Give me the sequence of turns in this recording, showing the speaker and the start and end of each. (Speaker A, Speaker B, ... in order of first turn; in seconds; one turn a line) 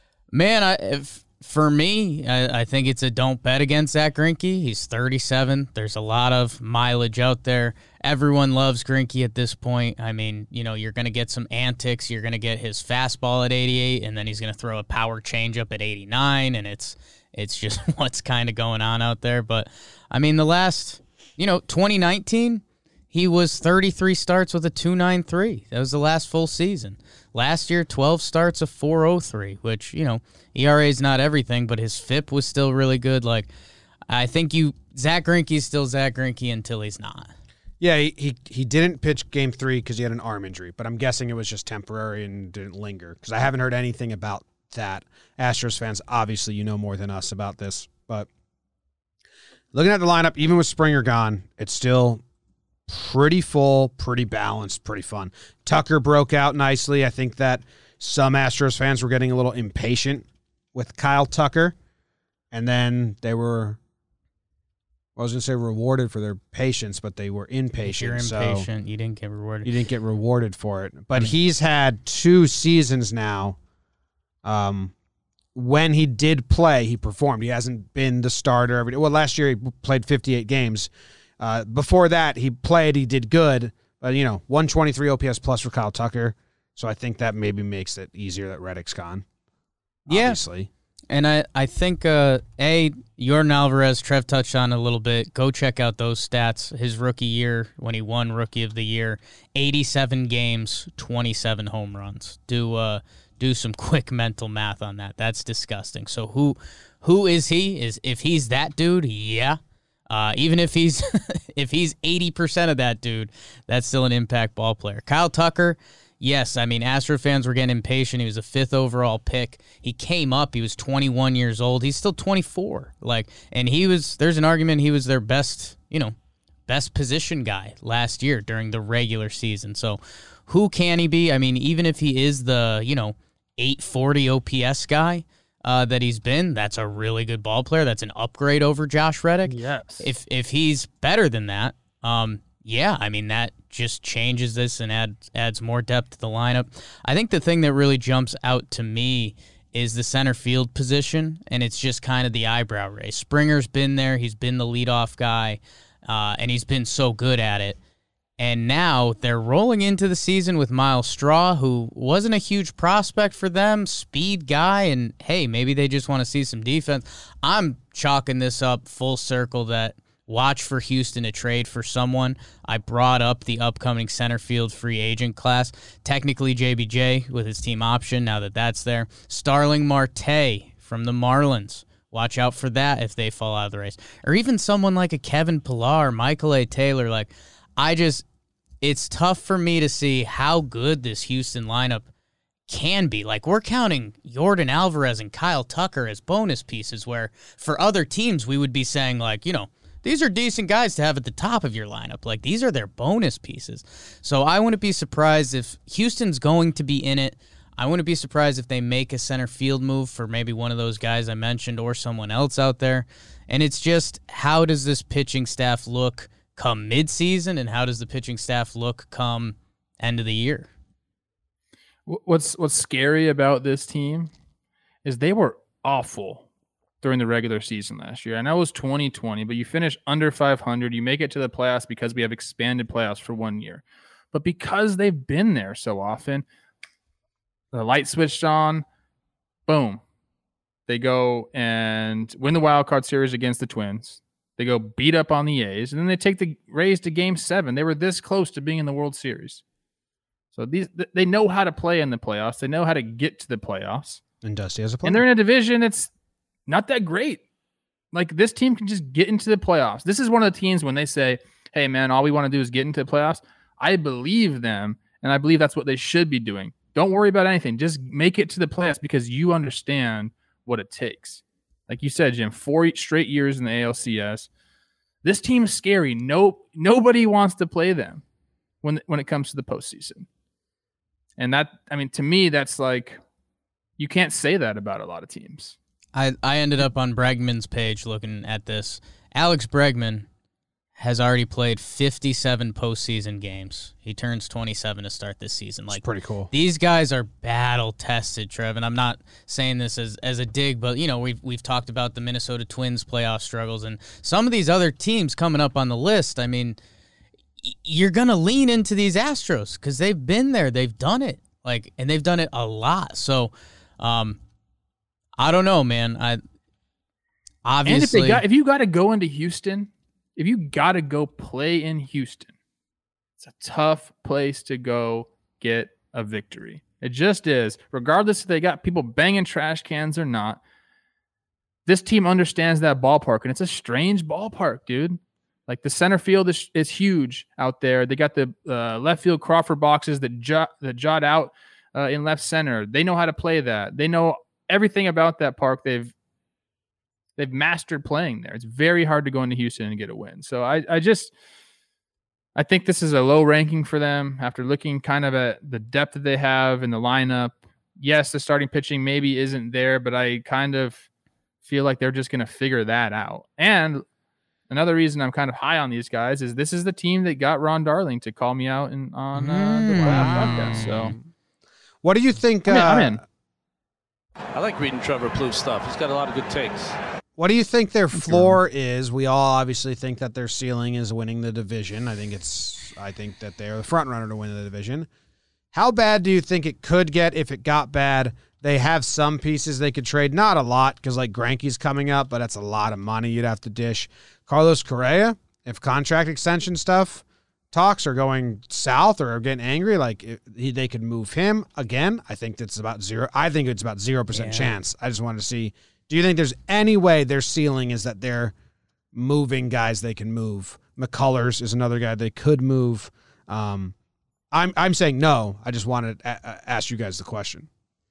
Speaker A: 0.3-33.5
Speaker A: 34.1-37.3
Speaker B: 37.8-48.3
Speaker B: 49.7-52.2
Speaker B: 52.9-61.8
Speaker B: 62.5-63.8
Speaker B: 65.2-68.7
Speaker A: 67.8-69.7
Speaker B: 69.7-73.6
Speaker B: 74.4-74.9
Speaker B: 75.5-89.2
Speaker A: 90.1-90.4
Speaker B: 90.1-90.7
Speaker A: 91.1-109.6
Speaker A: 110.1-126.2
Speaker A: 126.7-157.8
Speaker C: 139.5-140.1
Speaker A: 158.4-188.2
Speaker A: 188.8-192.1
Speaker A: 192.7-220.7
Speaker C: 222.1-224.3
Speaker C: 225.1-226.5
Speaker C: 227.0-236.4
Speaker C: 237.7-238.8
Speaker C: 239.7-240.0
Speaker C: 240.9-249.6
Speaker C: 250.5-254.2
Speaker B: 254.4-255.2
Speaker C: 255.0-256.1
Speaker C: 256.7-257.4
Speaker C: 258.1-274.5
Speaker C: 275.2-278.2
Speaker C: 278.8-280.3
Speaker C: 281.4-283.2
Speaker C: 284.0-285.8
Speaker A: 286.1-290.3
Speaker A: 291.0-306.8
Speaker B: 295.9-296.5
Speaker A: 307.6-314.4
Speaker A: 315.4-316.4
Speaker A: 317.6-318.4
Speaker C: 317.9-322.5
Speaker C: 323.4-330.6
Speaker C: 331.9-346.1
Speaker C: 347.4-351.3
Speaker C: 352.6-361.1
Speaker C: 361.6-364.0
Speaker C: 364.7-371.2
Speaker A: 369.4-371.1
Speaker B: 370.0-371.2
Speaker B: 372.0-373.2
Speaker C: 372.7-373.2
Speaker D: 374.6-376.9
Speaker B: 377.4-385.1
Speaker C: 378.1-378.6
Speaker B: 385.7-408.5
Speaker A: 404.3-404.8
Speaker B: 409.1-413.9
Speaker B: 414.5-417.7